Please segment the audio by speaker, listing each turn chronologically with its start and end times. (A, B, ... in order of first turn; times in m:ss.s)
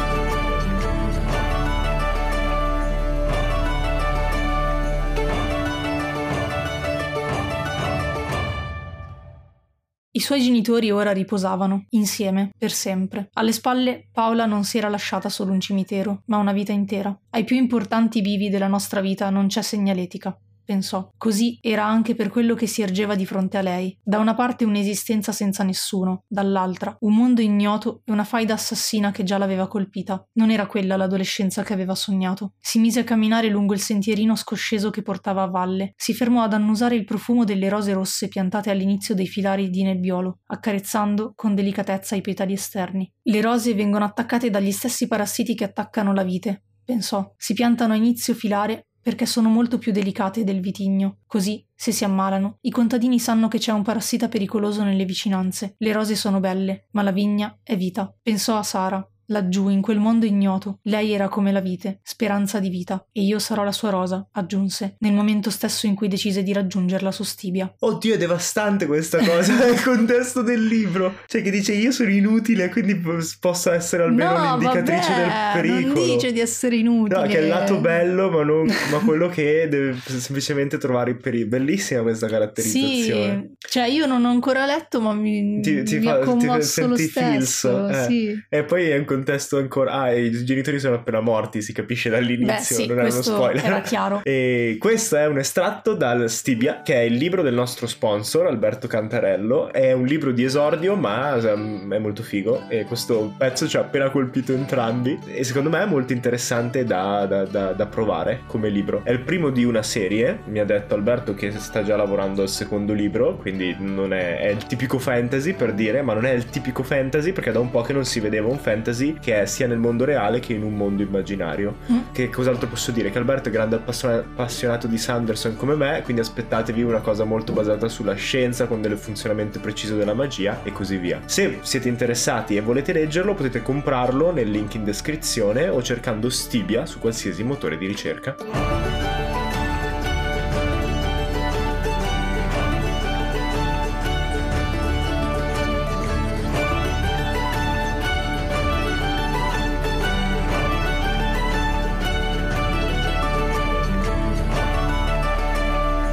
0:10.1-1:07.7 A
1:07.8-1:16.3 B
1:14.0-1:17.9 A
1:17.1-1:23.4 B
1:18.7-1:19.0 A
1:22.6-1:28.4 A
1:25.6-2:18.4 B
1:32.4-1:34.2 A